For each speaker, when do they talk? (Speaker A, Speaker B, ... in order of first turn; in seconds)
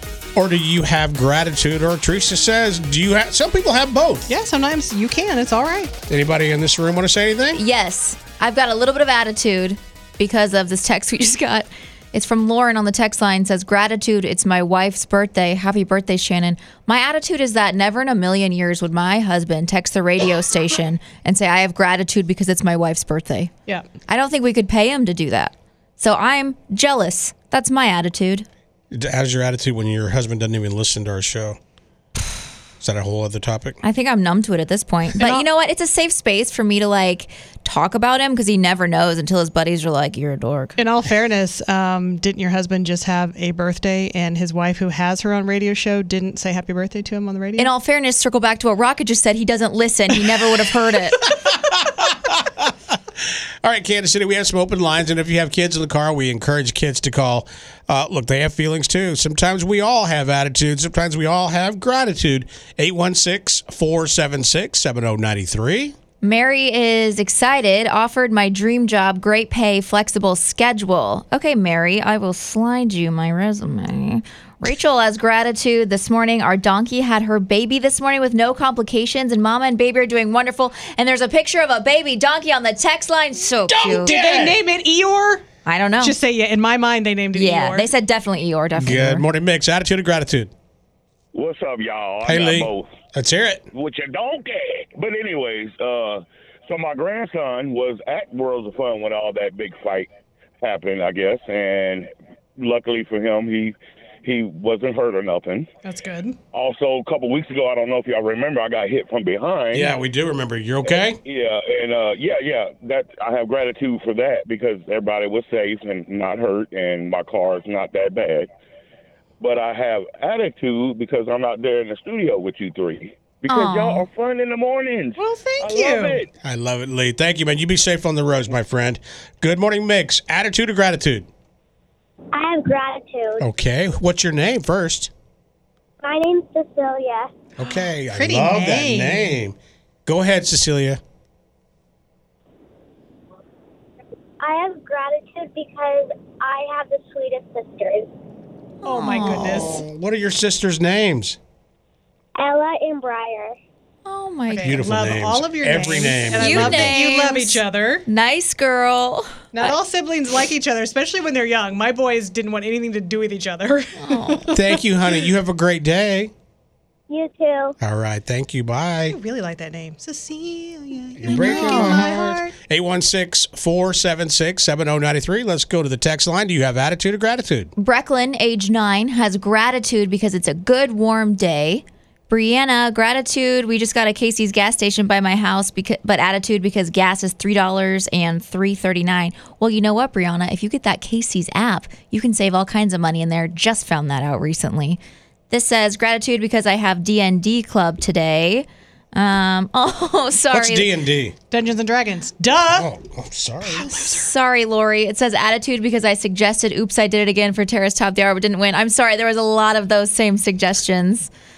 Speaker A: 0.3-4.3, 6.1-7.6, 28.9-31.6, 32.8-33.8, 51.5-52.7, 53.6-65.9, 83.8-84.6, 88.8-90.5, 92.2-93.6, 109.7-111.2, 126.4-131.3, 133.4-135.1, 137.6-141.0, 149.2-151.4, 154.6-157.0, 164.5-166.3, 167.8-169.2, 171.2-177.7, 200.5-201.3, 202.7-203.9
Speaker B: 4.3-5.9, 35.2-35.5, 40.8-47.7, 83.7-85.4, 86.0-87.9, 105.8-106.4, 125.2-126.2, 137.6-139.4, 148.8-149.8, 154.5-158.1, 159.5-165.2, 169.1-172.5, 201.5-202.9, 203.6-204.3
Speaker C: 7.5-23.5, 24.1-28.5, 33.8-40.8, 47.6-51.2, 66.2-84.2, 85.7-86.2, 87.3-89.2, 123.5-124.1, 148.8-149.7, 154.1-154.8, 156.3-159.8, 164.0-164.5, 171.4-172.0, 177.8-200.9, 203.8-211.3
Speaker D: 91.3-92.9, 93.7-100.1, 100.6-105.7, 106.5-109.9, 110.8-118.5, 119.4-126.3
Speaker E: 132.3-133.4, 136.0-137.3, 144.4-148.1, 152.4-153.5, 167.1-167.7